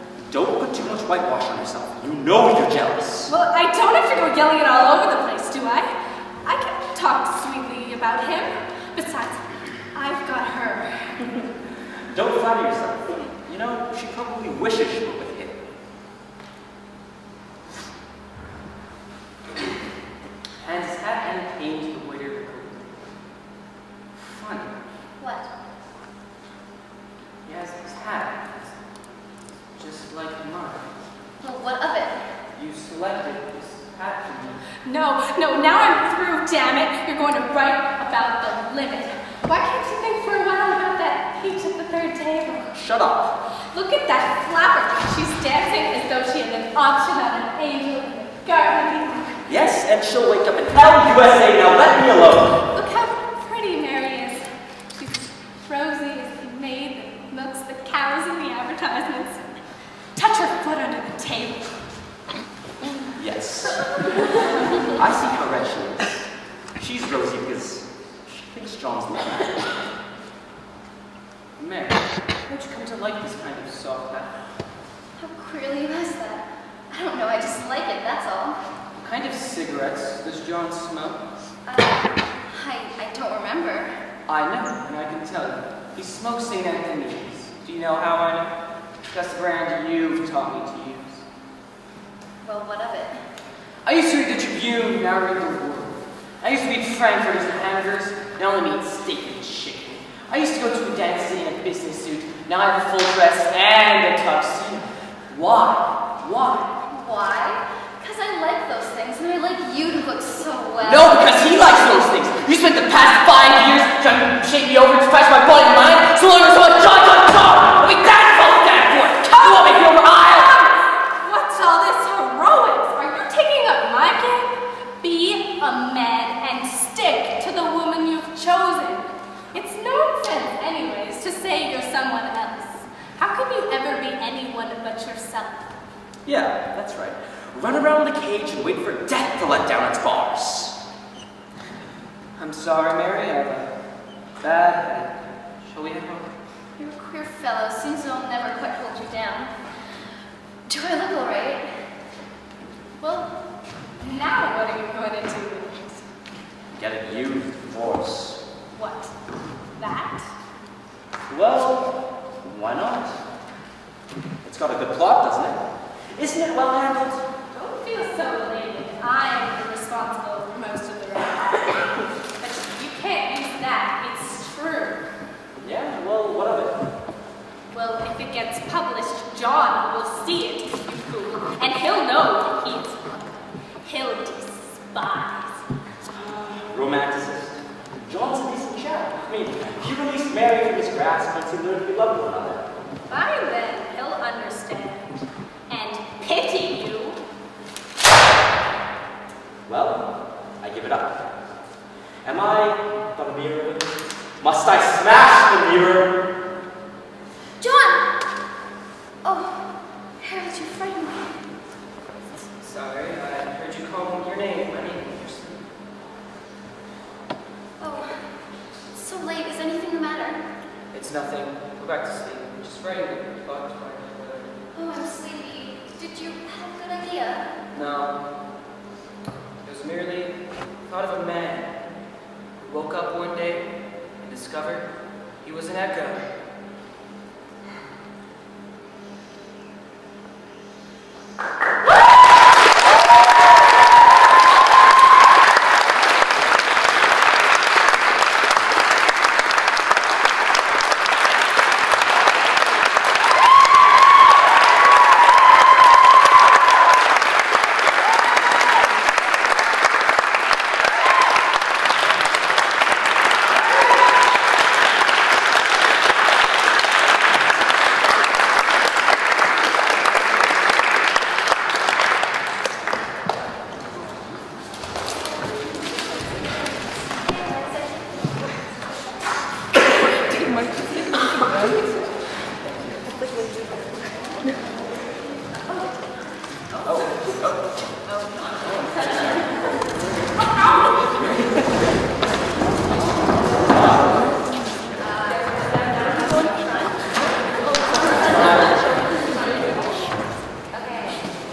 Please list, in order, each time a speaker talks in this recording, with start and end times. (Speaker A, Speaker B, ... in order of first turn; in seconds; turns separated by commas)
Speaker A: 0.3-3.3, Speaker B: 3.3-5.9, Speaker B: 6.4-11.3, Speaker A: 12.1-15.6, Speaker C: 20.6-22.8, Speaker C: 24.1-24.8, Speaker D: 25.2-25.5, Speaker C: 27.4-29.2, Speaker C: 29.7-30.9, Speaker D: 31.4-32.5, Speaker C: 32.5-34.6, Speaker B: 34.8-42.7, Speaker A: 42.7-43.4, Speaker B: 43.7-49.4, Speaker A: 49.5-52.7, Speaker B: 52.7-61.8, Speaker A: 63.1-64.2, Speaker A: 64.8-69.8, Speaker C: 71.6-74.4, Speaker D: 75.2-78.7, Speaker C: 79.0-81.2, Speaker D: 81.6-84.1, Speaker C: 84.3-88.5, Speaker C: 89.0-91.2, Speaker D: 92.4-93.3, Speaker C: 93.8-106.7, Speaker D: 106.8-112.1, Speaker C: 110.8-120.5, Speaker B: 119.3-135.7, Speaker A: 136.2-140.8, Speaker C: 142.4-143.7, Speaker C: 144.4-146.3, Speaker D: 146.8-150.0, Speaker D: 150.7-152.0, Speaker D: 153.0-153.4, Speaker B: 154.0-156.0, Speaker A: 156.7-158.4, Speaker B: 158.7-159.1, Speaker B: 159.7-160.3, Speaker A: 161.3-163.2, Speaker A: 164.4-167.2, Speaker B: 167.5-175.1, Speaker A: 175.6-176.8, Speaker B: 177.7-185.6, Speaker A: 186.1-192.7, Speaker B: 193.1-197.2, Speaker A: 199.7-201.3, Speaker A: 202.2-206.3, Speaker D: 207.6-208.3, Speaker D: 209.2-211.5, Speaker C: 212.4-215.7, Speaker D: 217.8-220.4, Speaker C: 220.9-224.5, Speaker D: 224.7-227.5, Speaker C: 227.7-228.2, Speaker C: 229.6-231.8, Speaker C: 232.6-236.3, Speaker A: 286.8-287.6, Speaker C: 298.3-298.7